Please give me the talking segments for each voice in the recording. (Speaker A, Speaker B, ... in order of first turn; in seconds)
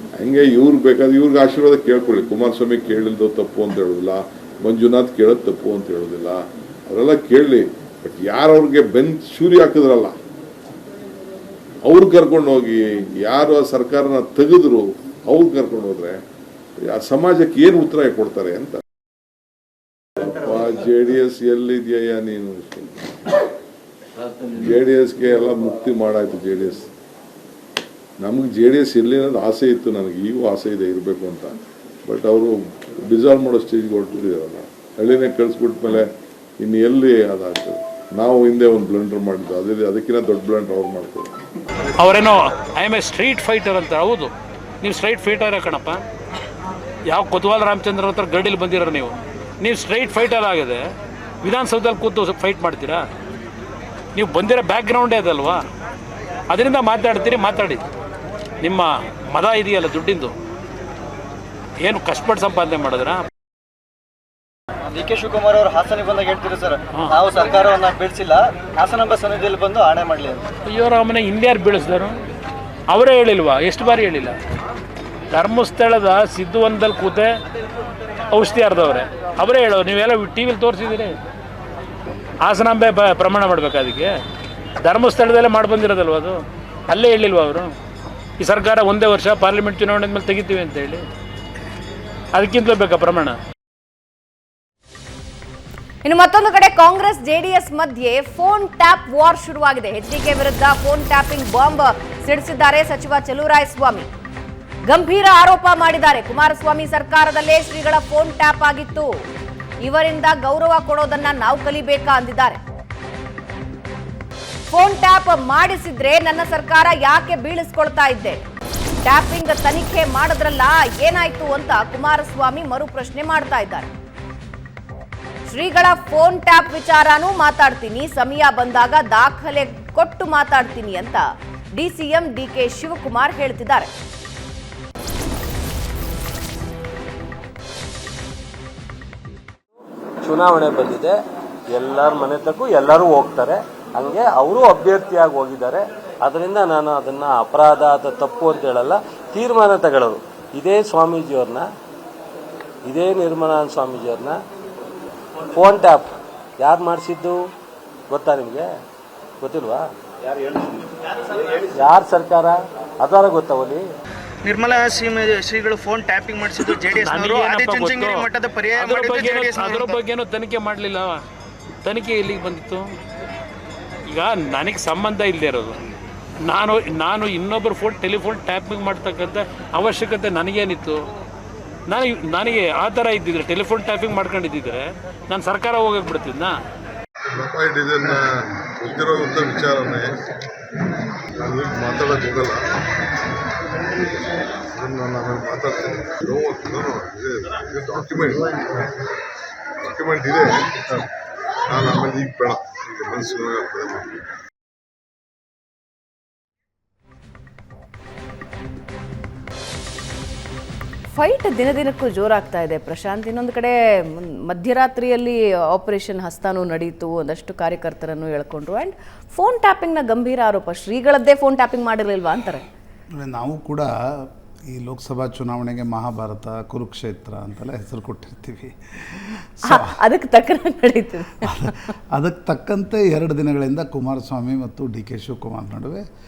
Speaker A: 0.1-10.2, 11.8-16.2, 16.8-18.8, 20.2-23.0, 24.5-26.9, 28.2-32.5, 33.0-36.1, 36.6-41.3, 187.3-190.2, 191.3-192.6, 194.5-198.8, 199.8-201.1, 201.7-204.2
Speaker B: 42.0-46.0, 47.1-50.8, 51.4-53.0, 54.1-55.6, 56.5-57.8, 58.6-60.3, 61.8-63.2, 67.0-67.2, 70.7-72.1, 72.9-74.3, 75.3-77.3, 78.3-81.1, 82.4-84.1, 84.8-86.4, 86.9-87.7, 88.4-91.0, 92.3-93.4, 166.7-168.2, 168.8-171.2, 171.8-172.9, 174.1-175.8, 176.4-181.0, 181.9-186.5
Speaker C: 64.9-70.4
Speaker D: 96.0-104.1, 104.8-109.1, 109.8-112.6, 114.7-118.4, 119.0-123.9, 125.5-131.2, 131.7-133.9, 211.1-222.7, 229.6-231.8
Speaker E: 140.2-141.2, 141.7-151.7, 152.8-154.4, 155.5-157.3, 158.1-158.7, 159.4-159.8, 161.5-163.8
Speaker F: 164.4-170.0
Speaker G: 223.2-230.0, 231.4-236.0